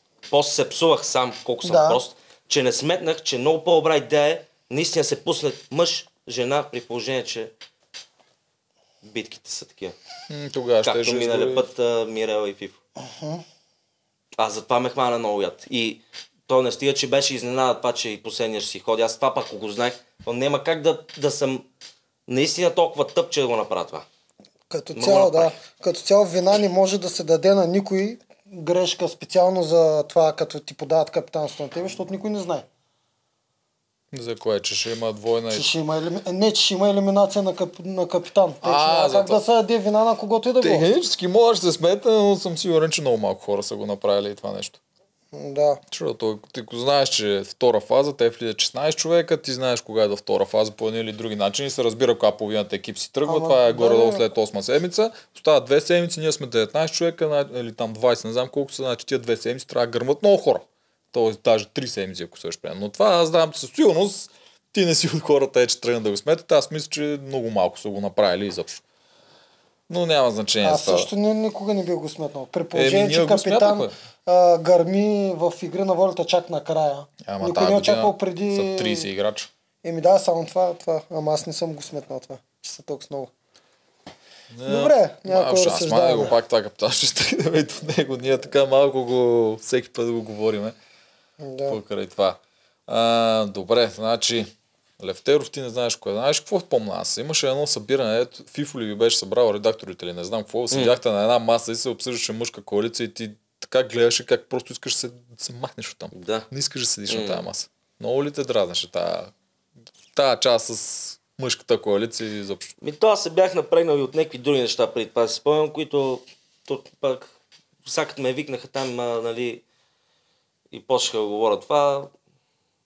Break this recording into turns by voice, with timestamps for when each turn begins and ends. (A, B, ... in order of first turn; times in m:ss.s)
0:00.3-0:07.5 A
0:01.6-0:02.0 B
0:09.0-0:09.9 A
0:10.3-0:11.6 C
0:10.8-0:12.8 A
0:13.0-0:13.4 B
0:14.4-0:21.6 A
0:22.3-0:24.0 A
0:24.7-0:32.6 B
0:24.9-0:25.5 A
0:34.1-0:35.7 C
0:35.5-0:40.9 B
0:38.6-0:39.4 C
0:40.6-0:44.8 C
0:45.3-0:45.8 B
0:45.9-1:08.8 C
0:53.2-0:54.2 B
1:09.9-1:11.1 C
1:10.6-1:19.1 B
1:12.7-1:13.9 C
1:17.2-1:19.5 C
1:19.8-1:23.3 B
1:24.5-1:30.7 C
1:24.6-1:26.3 B
1:31.4-1:31.8 B
1:31.7-1:49.3 C
1:40.7-1:41.0 A
1:46.1-1:46.5 A
1:47.1-1:47.4 A
1:50.1-1:52.7 C
1:52.8-1:57.3 A
1:57.8-1:59.6 A
2:00.7-2:02.1 A